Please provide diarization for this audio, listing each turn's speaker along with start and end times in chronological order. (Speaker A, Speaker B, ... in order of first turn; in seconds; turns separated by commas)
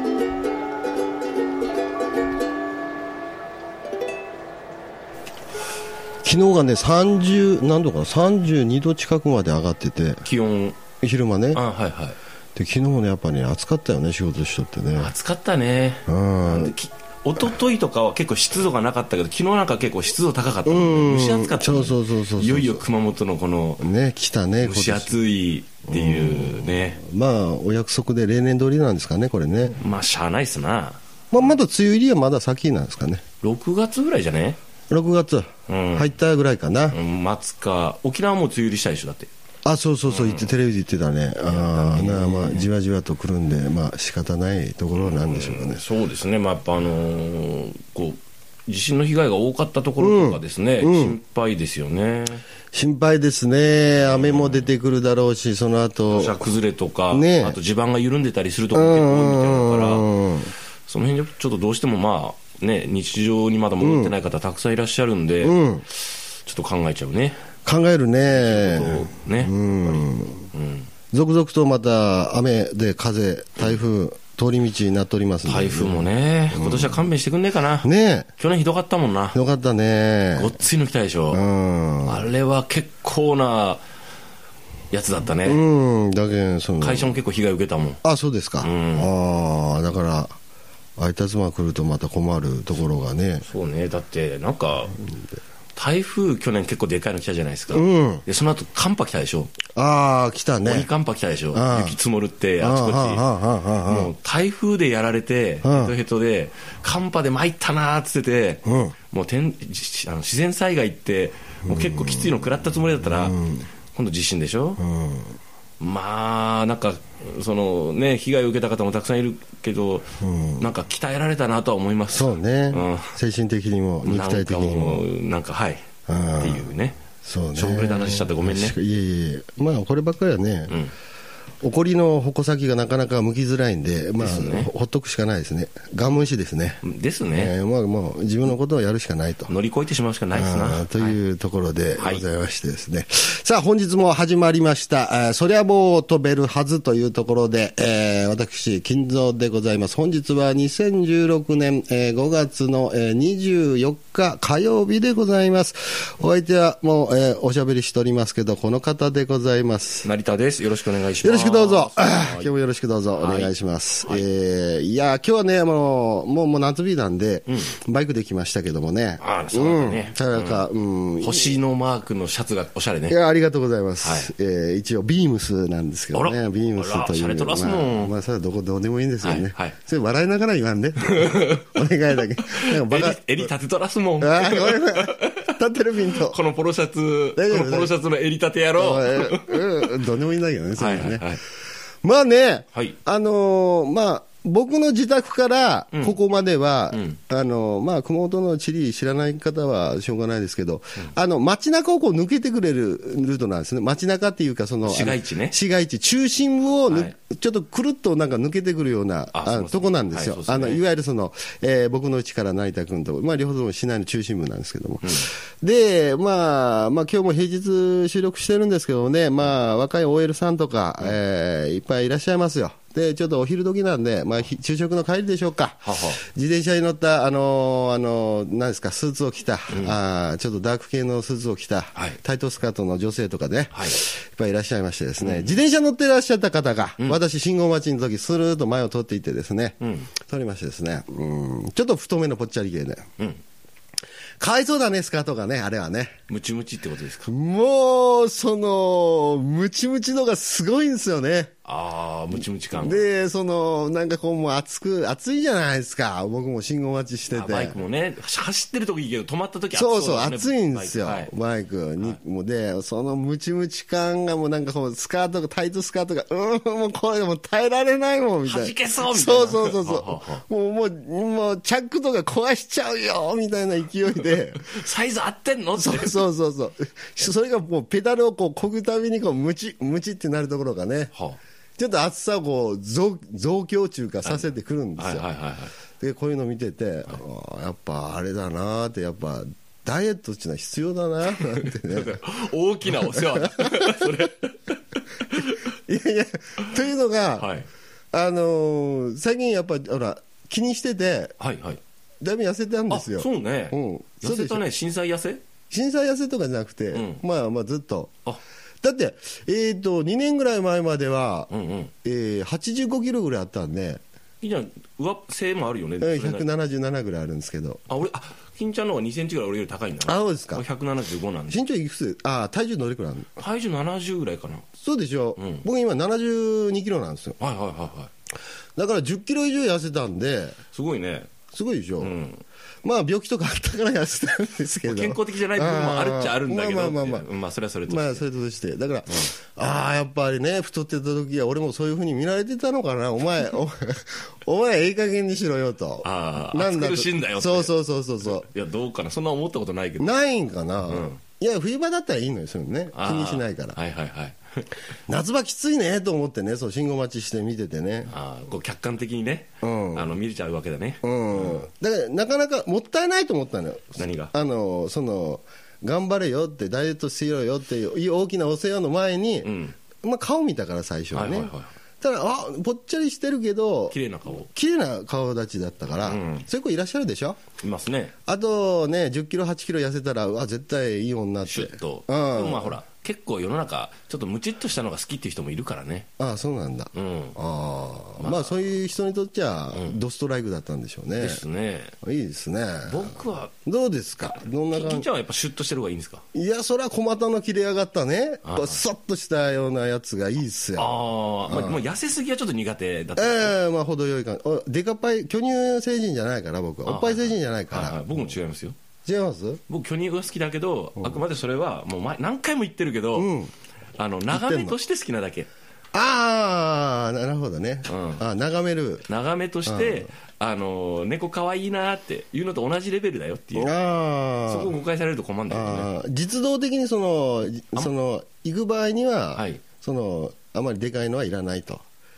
Speaker A: 6.2-10.2, Speaker B: 10.2-10.8, Speaker A: 11.0-11.6, Speaker B: 11.5-12.2, Speaker A: 12.5-15.1, Speaker B: 15.0-23.9, Speaker A: 16.1-16.7, Speaker A: 20.6-22.8, Speaker A: 23.8-25.2, Speaker B: 24.6-27.0, Speaker A: 25.9-29.8, Speaker B: 29.8-31.6, Speaker A: 31.3-33.2, Speaker B: 33.4-34.6, Speaker A: 34.9-37.0, Speaker B: 35.7-36.1, Speaker B: 36.9-39.3, Speaker A: 39.6-45.8, Speaker B: 40.0-40.5, Speaker B: 41.4-42.7, Speaker B: 44.9-52.4, Speaker A: 50.0-51.2, Speaker A: 52.7-56.5, Speaker B: 54.0-54.7, Speaker B: 56.1-60.2, Speaker A: 57.1-57.6, Speaker A: 58.7-60.5, Speaker B: 60.9-67.4, Speaker A: 63.8-64.1, Speaker A: 65.4-65.8, Speaker A: 67.6-70.5, Speaker B: 68.3-70.9, Speaker A: 71.1-77.0, Speaker B: 75.4-79.4, Speaker A: 77.8-78.3, Speaker A: 79.3-80.5, Speaker B: 80.3-81.4, Speaker A: 81.3-82.3, Speaker B: 82.0-83.8, Speaker B: 84.9-85.6, Speaker A: 85.4-87.2, Speaker B: 86.8-88.0, Speaker A: 88.0-90.3, Speaker B: 88.6-89.1, Speaker A: 91.0-93.5, Speaker B: 93.4-95.0, Speaker B: 95.7-99.5, Speaker A: 97.7-98.2, Speaker A: 99.8-100.9, Speaker B: 100.6-103.2, Speaker A: 101.5-102.0, Speaker A: 102.6-104.1, Speaker B: 103.8-113.4, Speaker A: 105.6-105.9, Speaker A: 108.6-108.9, Speaker A: 111.6-112.4, Speaker A: 113.0-113.7, Speaker B: 113.9-114.8, Speaker A: 114.8-115.4, Speaker B: 115.8-123.2, Speaker A: 120.2-120.7, Speaker A: 122.1-125.1, Speaker B: 124.0-127.0, Speaker A: 126.1-130.8, Speaker B: 127.5-128.8, Speaker B: 130.7-130.9, Speaker A: 131.6-139.6, Speaker B: 134.2-134.7, Speaker B: 136.8-137.5, Speaker B: 139.5-141.2, Speaker A: 140.3-160.1, Speaker B: 142.0-142.2, Speaker B: 160.0-162.5, Speaker A: 161.2-171.6, Speaker B: 163.2-163.5, Speaker B: 164.0-164.3, Speaker B: 167.5-167.8, Speaker B: 169.2-170.7, Speaker B: 171.2-173.2, Speaker A: 173.1-183.5, Speaker B: 174.0-174.3, Speaker B: 176.1-178.1, Speaker B: 179.2-179.8, Speaker B: 181.1-181.8, Speaker B: 182.4-185.5, Speaker A: 184.2-186.4, Speaker B: 186.1-190.0, Speaker A: 187.3-187.9, Speaker A: 188.8-191.2, Speaker B: 190.8-191.4, Speaker A: 192.0-243.0, Speaker B: 195.9-196.2, Speaker B: 196.9-197.2, Speaker B: 204.8-205.6, Speaker B: 206.9-207.1, Speaker B: 209.3-210.8, Speaker B: 215.0-215.3, Speaker B: 225.8-226.2, Speaker B: 229.7-230.0, Speaker B: 233.7-234.0, Speaker B: 235.2-235.6, Speaker B: 239.8-240.1, Speaker A: 244.4-246.2, Speaker B: 246.3-247.3, Speaker A: 247.2-251.5, Speaker B: 251.6-253.1, Speaker A: 252.3-257.8, Speaker B: 257.3-261.3, Speaker A: 259.7-274.7, Speaker B: 268.4-270.4, Speaker B: 274.2-276.2, Speaker A: 275.8-281.1, Speaker B: 281.1-281.4, Speaker A: 281.8-285.2, Speaker B: 284.2-285.8, Speaker A: 286.0-292.2, Speaker B: 291.3-295.6, Speaker A: 292.9-294.1, Speaker A: 295.7-297.5, Speaker B: 297.4-297.7, Speaker A: 298.1-301.4, Speaker B: 301.4-301.8, Speaker A: 302.2-304.6, Speaker B: 302.9-305.4, Speaker A: 305.7-308.1, Speaker B: 306.9-307.2, Speaker A: 308.8-311.5, Speaker B: 311.5-311.9, Speaker A: 312.0-314.0, Speaker B: 314.4-316.5, Speaker A: 316.0-317.8, Speaker B: 317.9-321.6, Speaker A: 320.0-320.6, Speaker A: 321.5-323.3, Speaker B: 323.4-324.7, Speaker A: 324.8-327.4, Speaker B: 325.4-325.6, Speaker B: 327.4-328.1, Speaker A: 328.8-330.6, Speaker B: 330.7-331.3, Speaker A: 331.5-332.2, Speaker B: 332.0-332.4, Speaker A: 332.8-337.3, Speaker B: 334.8-338.2, Speaker A: 337.9-348.5, Speaker B: 346.0-350.1, Speaker A: 350.0-353.8, Speaker B: 350.9-351.2, Speaker B: 352.9-354.8, Speaker A: 355.1-358.1, Speaker B: 358.1-361.7, Speaker A: 359.6-360.1, Speaker A: 361.0-377.4, Speaker B: 363.9-364.3, Speaker B: 369.4-369.8, Speaker B: 371.1-371.7, Speaker B: 373.9-374.5, Speaker B: 376.0-376.5, Speaker B: 377.6-378.1, Speaker A: 378.2-382.8, Speaker B: 381.4-386.1, Speaker A: 386.2-391.4, Speaker B: 386.9-387.4, Speaker B: 388.2-388.6, Speaker B: 391.2-391.9, Speaker A: 392.0-395.1, Speaker B: 392.8-393.5, Speaker B: 394.7-396.2, Speaker A: 396.3-401.8, Speaker B: 398.4-398.8, Speaker B: 400.8-403.6, Speaker A: 403.1-408.3, Speaker B: 406.8-408.8, Speaker A: 409.0-409.6, Speaker B: 409.7-413.3, Speaker A: 413.1-413.5, Speaker B: 414.0-415.5, Speaker A: 414.3-414.8, Speaker A: 415.9-419.1, Speaker B: 417.9-418.2, Speaker B: 419.1-423.8, Speaker A: 419.6-420.1, Speaker A: 423.6-424.8, Speaker B: 424.4-425.9, Speaker A: 425.5-431.8, Speaker B: 429.3-429.6